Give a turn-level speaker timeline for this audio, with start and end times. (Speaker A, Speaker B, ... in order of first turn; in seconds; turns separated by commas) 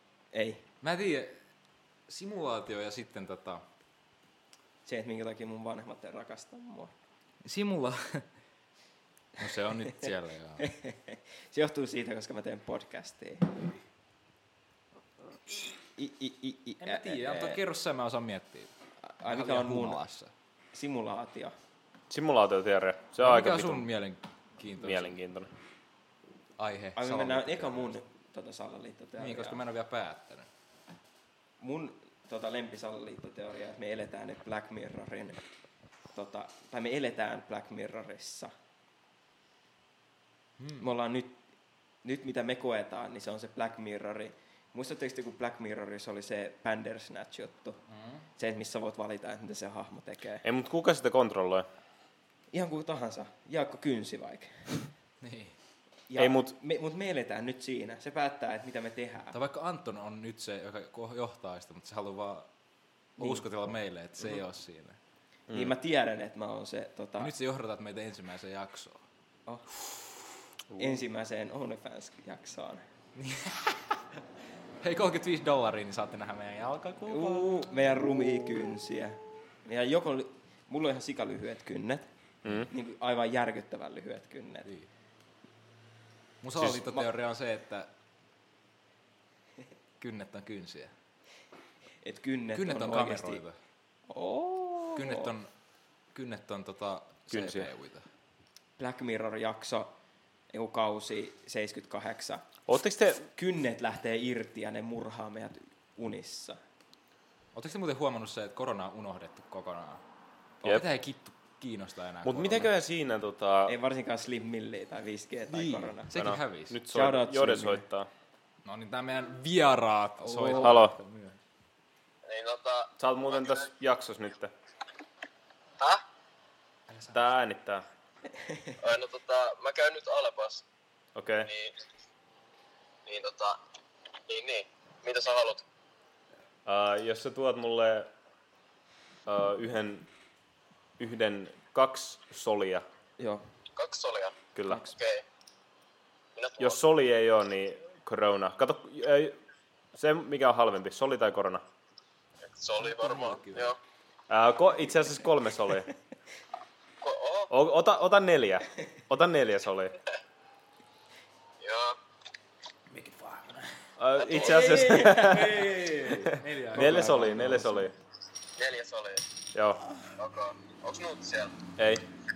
Speaker A: 0.3-0.6, Speaker B: 0.8-1.4, Speaker B: 2.1-3.6, Speaker A: 4.8-6.9, Speaker B: 7.4-8.3, Speaker B: 9.4-10.7, Speaker A: 10.6-13.6, Speaker A: 16.0-17.6, Speaker B: 16.8-18.7, Speaker A: 19.0-20.0, Speaker B: 19.3-20.3, Speaker A: 20.7-21.6, Speaker C: 22.1-23.9, Speaker B: 23.2-25.2, Speaker C: 24.8-25.5, Speaker B: 26.6-27.9, Speaker A: 27.0-29.6, Speaker B: 29.2-30.5, Speaker A: 31.6-35.4, Speaker A: 36.1-38.5, Speaker B: 40.6-40.9, Speaker A: 40.8-41.4, Speaker A: 42.0-47.8, Speaker B: 47.9-48.2, Speaker A: 48.4-50.5, Speaker C: 50.4-51.7, Speaker A: 52.5-54.8, Speaker B: 55.2-55.5, Speaker A: 56.1-59.4, Speaker C: 56.2-56.5, Speaker B: 59.3-62.5, Speaker A: 63.2-63.4, Speaker B: 63.2-65.0, Speaker C: 65.5-65.8, Speaker A: 65.5-67.3, Speaker B: 67.2-69.0, Speaker C: 70.7-71.0, Speaker A: 70.8-72.8, Speaker B: 73.2-74.0, Speaker B: 74.8-78.0, Speaker A: 77.0-82.1, Speaker C: 82.4-82.7, Speaker A: 82.6-84.7, Speaker B: 86.4-87.9, Speaker B: 90.0-90.9, Speaker A: 92.0-93.4, Speaker B: 92.5-93.6, Speaker A: 94.1-95.3, Speaker B: 95.0-95.5, Speaker B: 96.1-98.0, Speaker C: 97.3-97.7, Speaker A: 98.8-99.9, Speaker A: 100.5-102.5, Speaker C: 102.7-103.2, Speaker A: 103.2-106.6, Speaker B: 107.5-110.0, Speaker B: 110.6-112.7, Speaker C: 112.2-113.7, Speaker A: 113.7-116.1, Speaker B: 115.5-116.8, Speaker C: 116.1-118.1, Speaker A: 116.9-117.8, Speaker B: 118.7-121.4, Speaker A: 120.2-120.8, Speaker C: 120.6-121.0, Speaker D: 122.2-123.0, Speaker C: 123.0-124.5, Speaker B: 126.9-127.3, Speaker C: 127.1-127.9, Speaker D: 128.8-130.6, Speaker C: 131.2-131.5, Speaker D: 131.5-131.7, Speaker D: 133.1-133.6, Speaker D: 134.3-135.6, Speaker C: 136.7-138.1, Speaker C: 139.3-140.1, Speaker C: 141.0-142.8, Speaker A: 143.2-143.4, Speaker D: 143.8-145.2, Speaker C: 144.6-144.9, Speaker D: 146.4-146.8, Speaker C: 146.6-149.4, Speaker C: 149.9-151.6, Speaker D: 152.5-153.8, Speaker B: 152.7-153.8, Speaker C: 154.3-155.9, Speaker D: 157.0-157.5, Speaker C: 157.5-160.0, Speaker D: 161.6-162.0, Speaker B: 162.9-163.8, Speaker C: 164.0-167.9, Speaker D: 164.2-164.7, Speaker B: 164.4-167.8, Speaker A: 164.5-165.7, Speaker A: 166.7-167.9, Speaker D: 168.6-169.3, Speaker C: 169.5-169.8, Speaker D: 170.2-171.6, Speaker C: 171.8-172.1